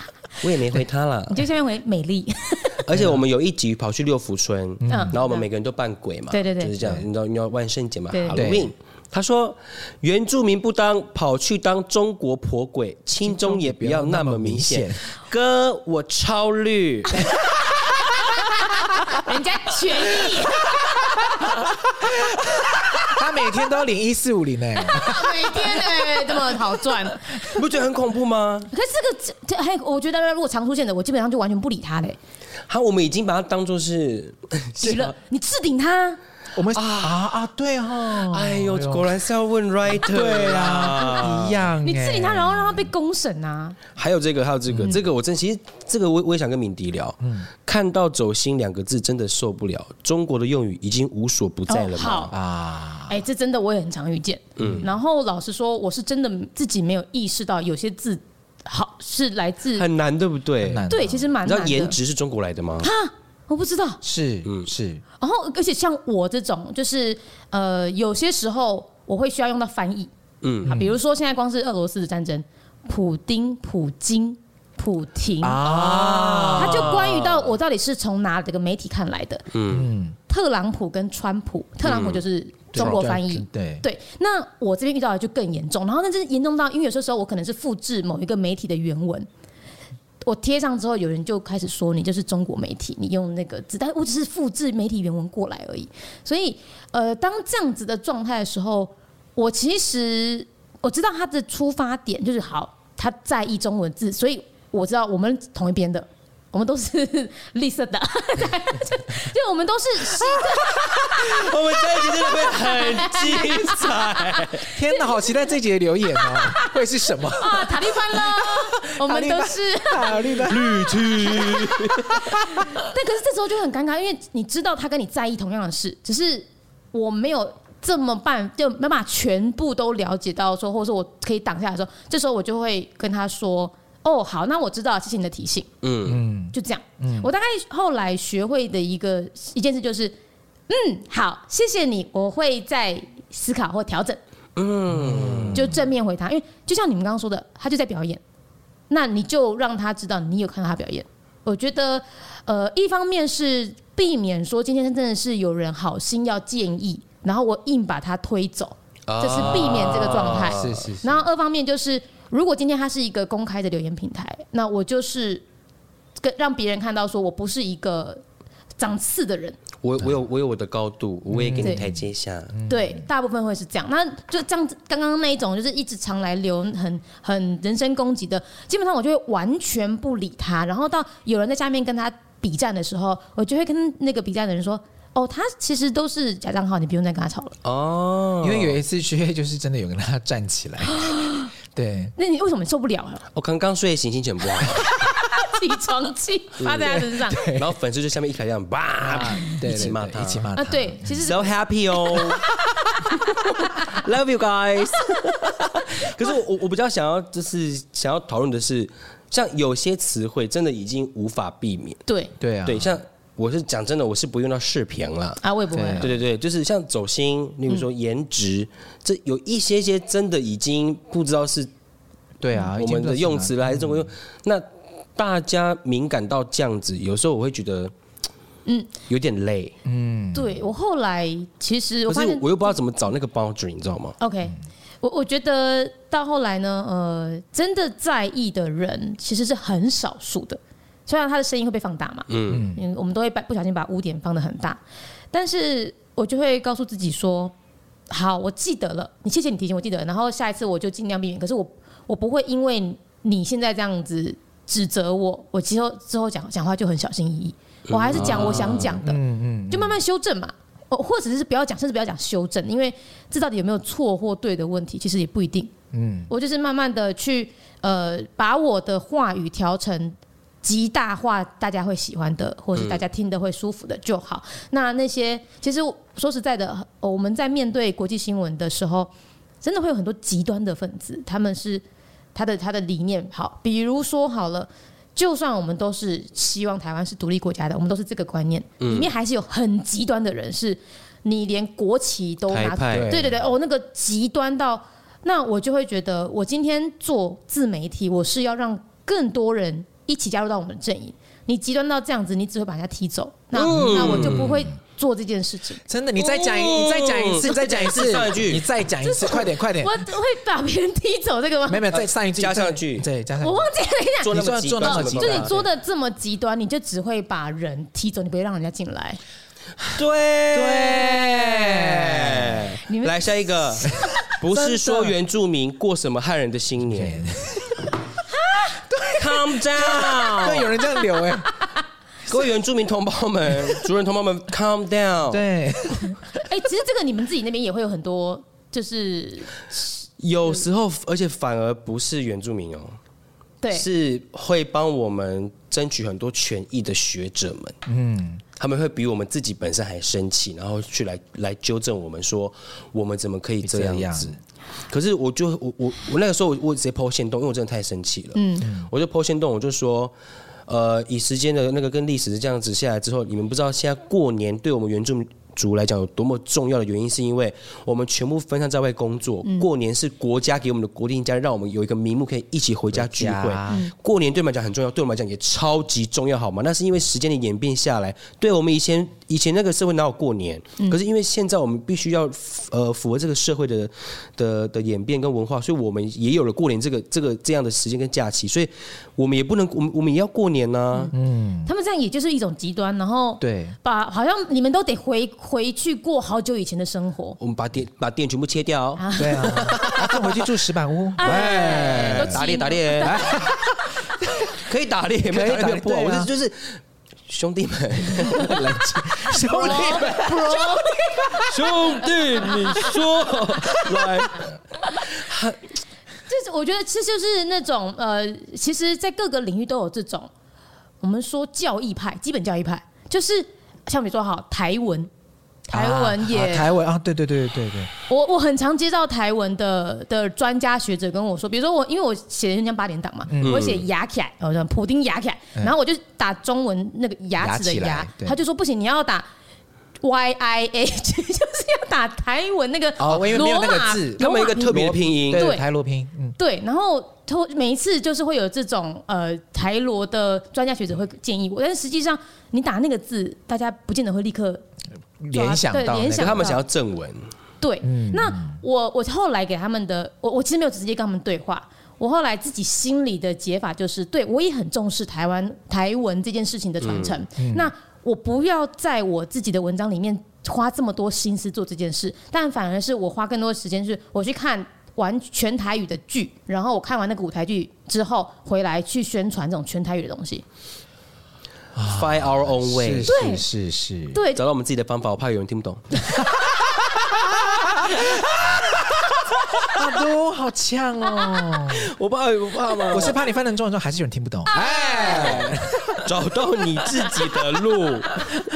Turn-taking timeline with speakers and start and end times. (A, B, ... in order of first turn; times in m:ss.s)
0:00.4-0:01.5 A
0:01.3-0:02.8 B
0:02.8-0:17.3 A
0:02.9-0:03.2 C
0:04.8-0:05.2 C
0:04.9-0:05.4 B
0:06.3-0:06.7 B
0:08.1-0:08.4 B
0:08.3-0:08.7 C
0:13.2-0:15.0 C
0:17.4-0:18.4 C
0:18.3-0:21.5 B
0:20.8-0:26.6 C
0:24.8-0:27.6 B
0:27.5-0:28.7 A
0:28.7-0:32.2 B
0:32.7-0:35.1 A
0:34.8-0:36.2 B
0:36.6-0:39.2 C
0:36.8-0:37.2 A
0:38.3-0:41.6 A
0:40.0-0:42.9 C
0:41.8-0:43.8 B
0:44.0-0:52.3 A
0:47.2-0:47.5 C
0:51.7-0:52.4 B
0:52.3-0:53.2 C
0:53.1-0:59.9 B
0:54.6-0:54.9 A
0:54.6-0:54.9 C
0:59.7-1:00.9 A
1:00.6-1:01.3 C
1:00.9-1:02.0 B
1:01.4-1:02.9 A
1:02.8-1:04.0 B
1:04.0-1:05.0 C
1:05.2-1:10.1 B
1:10.4-1:10.8 A
1:10.7-1:11.0 C
1:10.7-1:15.7 B
1:15.4-1:17.0 C
1:15.6-1:17.5 A
1:16.5-1:19.5 B
1:19.5-1:19.9 A
1:19.7-1:20.2 C
1:20.3-1:29.3 B
1:21.8-1:22.2 A
1:22.7-1:23.8 C
1:22.8-1:23.0 A
1:30.2-1:55.2 B
1:51.0-1:54.7 A
1:54.7-2:02.8 C
1:56.2-2:00.5 B
2:00.4-2:02.3 A
2:01.2-2:01.7 B
2:02.4-2:15.7 B
2:15.8-2:16.3 A
2:16.1-2:17.3 C
2:16.5-2:20.2 B
2:20.7-2:24.2 B
2:24.6-2:25.7 A
2:24.9-2:25.8 C
2:25.5-2:28.2 B
2:28.9-2:45.4 B
2:39.1-2:40.9 A
2:39.4-2:41.3 C
2:46.2-2:48.2 B
2:48.8-2:49.6 B
2:49.8-2:52.6 A
2:51.3-2:53.0 C
2:52.7-3:07.6 B
3:07.6-3:08.8 A
3:08.4-3:12.1 C
3:10.8-3:11.5 B
3:12.2-3:13.2 B
3:13.3-3:14.9 A
3:14.8-3:17.5 B
3:16.6-3:20.5 A
3:16.8-3:17.7 C
3:19.0-3:21.3 C
3:20.6-3:22.4 B
3:21.2-3:22.4 A
3:23.0-3:23.7 B
3:23.4-3:32.0 A
3:32.1-3:32.3 B
3:32.4-3:32.9 C
3:32.7-3:35.4 A
3:35.4-3:36.2 B
3:35.7-3:36.1 C
3:36.0-3:41.7 A
3:42.4-3:44.1 C
3:42.8-3:44.6 A
3:45.2-3:47.9 A
3:48.7-3:48.9 B
3:49.1-3:49.8 A
3:49.8-3:50.6 C
3:50.3-3:52.7 B
3:52.1-3:54.2 A
3:54.2-4:04.8 B
4:02.3-4:02.7 A
4:02.5-4:02.8 C
4:05.3-4:07.5 B
4:08.1-4:25.7 B
4:17.9-4:19.0 A
4:18.1-4:20.0 C
4:25.9-4:26.3 C
4:26.3-4:39.1 B
4:32.8-4:33.0 A
4:39.6-4:41.8 B
4:42.4-5:05.8 B
4:48.8-4:49.1 A
4:52.5-4:53.1 A
4:52.9-4:53.4 C
5:03.5-5:04.6 A
5:03.7-5:04.7 C
5:05.9-5:10.1 C
5:06.2-5:08.7 A
5:09.0-5:11.9 B
5:11.7-5:13.7 C
5:11.9-5:13.1 A
5:13.4-5:19.2 B
5:14.2-5:15.6 A
5:14.3-5:15.6 C
5:19.9-5:27.2 A
5:20.5-5:22.7 C
5:22.9-5:24.0 B
5:24.0-5:25.2 C
5:26.9-5:27.9 C
5:28.3-5:28.8 B
5:28.9-5:31.5 C
5:29.1-5:30.8 A
5:30.9-5:31.4 B
5:32.3-5:35.4 A
5:35.3-5:36.2 C
5:36.3-5:40.1 B
5:40.2-5:43.0 A
5:43.7-5:47.8 A
5:47.9-5:48.4 C
5:48.6-5:54.4 A
5:53.6-5:54.4 C
5:54.9-6:00.1 A
5:58.4-5:58.7 B
5:58.6-5:58.9 C
6:00.7-6:31.1 A
6:12.9-6:13.9 C
6:31.1-6:31.7 C
6:31.7-6:37.4 B
6:33.4-6:33.8 C
6:37.4-6:40.1 A
6:39.0-6:40.1 B
6:39.2-6:42.4 C
6:41.2-6:43.4 B
6:41.2-6:43.4 A
6:43.0-6:44.6 C
6:44.5-6:48.7 A
6:45.3-6:46.3 C
6:48.0-6:51.8 C
6:49.3-6:51.5 B
6:49.5-6:50.3 A
6:51.4-6:55.6 A
6:52.4-6:53.0 B
6:53.6-6:54.3 C
6:56.3-7:00.3 B
7:01.0-7:05.1 B
7:05.7-7:06.7 B
7:05.7-7:07.9 C
7:08.1-7:19.3 B
7:13.3-7:13.7 C
7:13.4-7:13.8 A
7:17.4-7:18.4 C
7:20.0-7:25.6 B
7:23.0-7:26.4 C
7:24.2-7:25.5 A
7:26.4-7:34.6 B
7:35.2-7:36.6 C
7:35.3-7:36.6 B
7:36.2-7:37.3 A
7:37.6-8:00.4 B
7:37.8-7:38.6 C
7:46.8-7:47.2 A
7:47.4-7:47.7 C
8:01.8-8:04.2 C
8:01.8-8:03.2 A
8:03.1-8:03.5 B
8:04.1-8:04.4 B
8:04.4-8:06.0 A
8:06.1-8:11.9 C
8:11.7-8:13.2 A
8:12.9-8:16.1 C
8:14.5-8:15.6 B
8:15.0-8:15.5 A
8:16.0-8:18.3 A